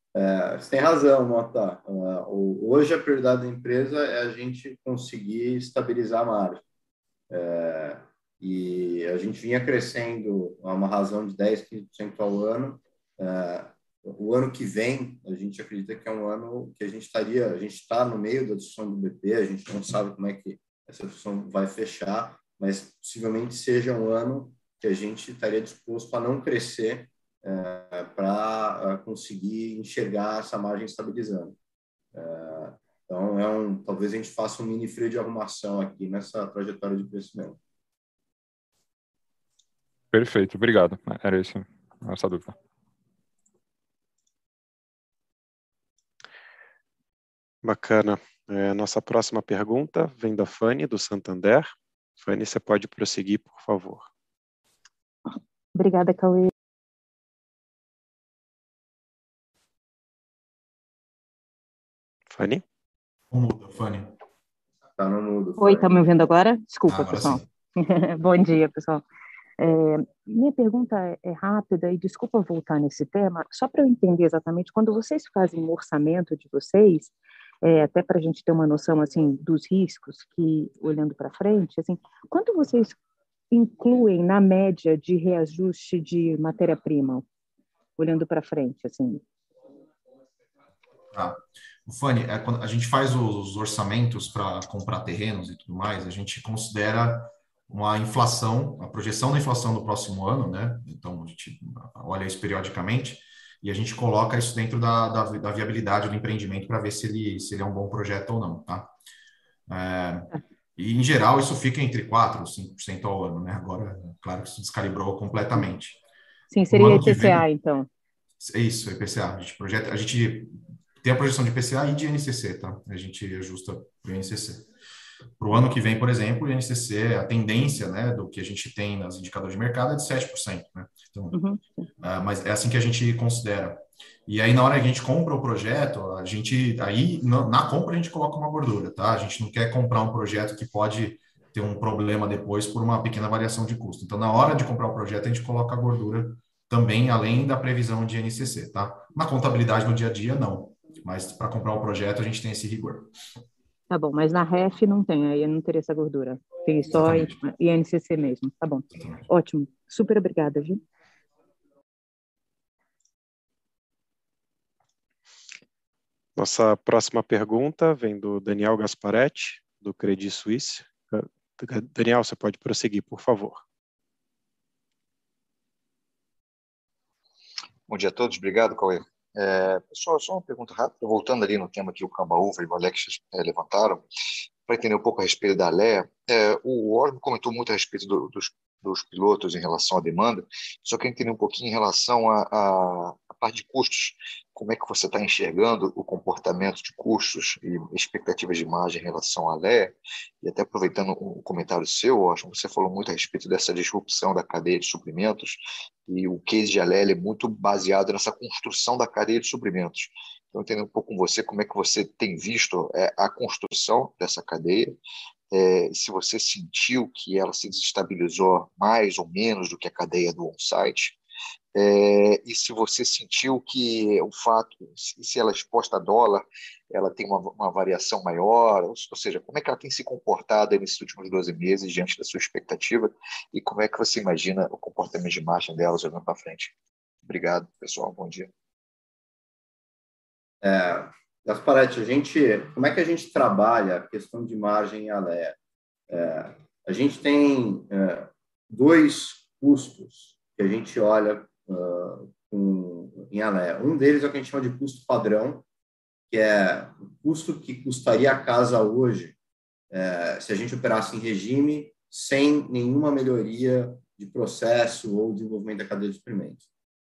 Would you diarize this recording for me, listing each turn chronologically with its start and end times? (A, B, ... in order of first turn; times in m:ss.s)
0:00.1-0:06.6 A
0:07.3-0:31.6 A
0:32.1-0:37.6 A
0:40.1-0:42.6 B
0:47.6-0:54.1 C
0:55.7-0:56.5 D
1:02.3-1:02.6 C
1:03.3-1:04.1 E
1:05.0-1:06.0 A
1:05.6-1:09.0 D
1:06.9-1:07.4 E
1:09.6-1:23.0 D
1:23.5-1:27.2 D
1:28.0-1:29.2 D
1:31.1-1:48.9 E
1:49.7-1:56.0 E
1:56.5-1:57.9 D
1:56.7-1:57.4 E
1:58.4-2:04.6 E
2:05.4-2:11.4 E
2:11.3-2:11.8 D
2:12.0-2:33.1 E
2:33.9-2:40.8 D
2:37.0-2:37.4 E
2:38.9-2:39.2 E
2:46.4-2:53.6 C
2:57.9-3:04.0 F
3:04.7-3:35.0 F
3:35.5-3:41.2 F
3:41.7-3:56.7 F
3:57.3-3:58.5 F
4:00.6-4:05.6 A
4:06.1-4:15.6 A
4:16.3-4:19.4 A
4:19.9-4:26.6 A